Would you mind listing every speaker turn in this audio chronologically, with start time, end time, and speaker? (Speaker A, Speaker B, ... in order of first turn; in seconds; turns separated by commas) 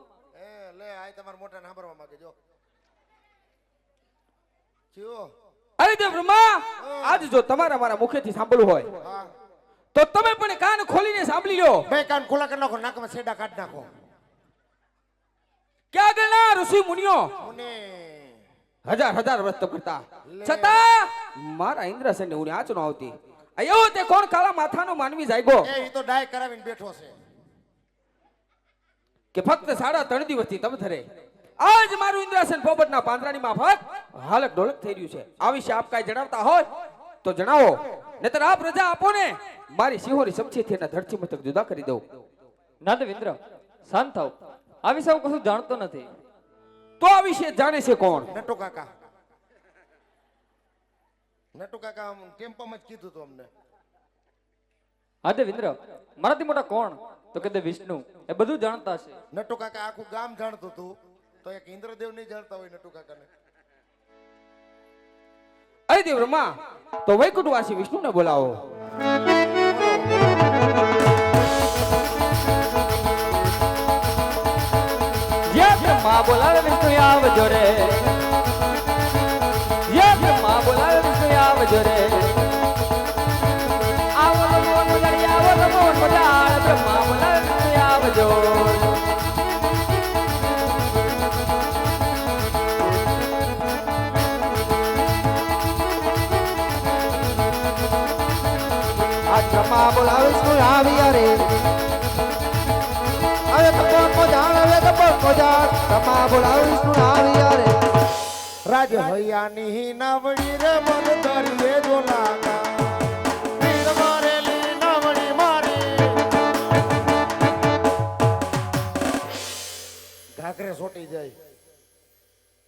Speaker A: 0.3-2.3, Speaker A: 4.9-5.3, Speaker B: 5.8-8.9, Speaker A: 6.8-7.3, Speaker A: 9.0-9.3, Speaker B: 9.9-11.8, Speaker A: 11.9-13.9, Speaker B: 15.9-17.3, Speaker A: 17.4-18.4, Speaker B: 18.9-25.7, Speaker A: 20.3-20.8, Speaker A: 25.6-27.1, Speaker B: 29.3-31.0, Speaker B: 31.6-36.7, Speaker B: 37.2-42.0, Speaker C: 42.8-46.1, Speaker B: 47.0-48.3, Speaker A: 48.3-48.9, Speaker A: 51.5-53.5, Speaker C: 55.2-59.1, Speaker A: 59.3-63.3, Speaker B: 65.9-66.5, Speaker B: 67.0-68.7, Speaker A: 69.5-70.5, Speaker C: 75.5-78.1, Speaker C: 79.9-82.3, Speaker C: 84.2-89.0, Speaker D: 99.3-101.3, Speaker D: 103.5-107.7, Speaker A: 108.7-113.0, Speaker A: 113.6-116.2, Speaker A: 120.4-121.3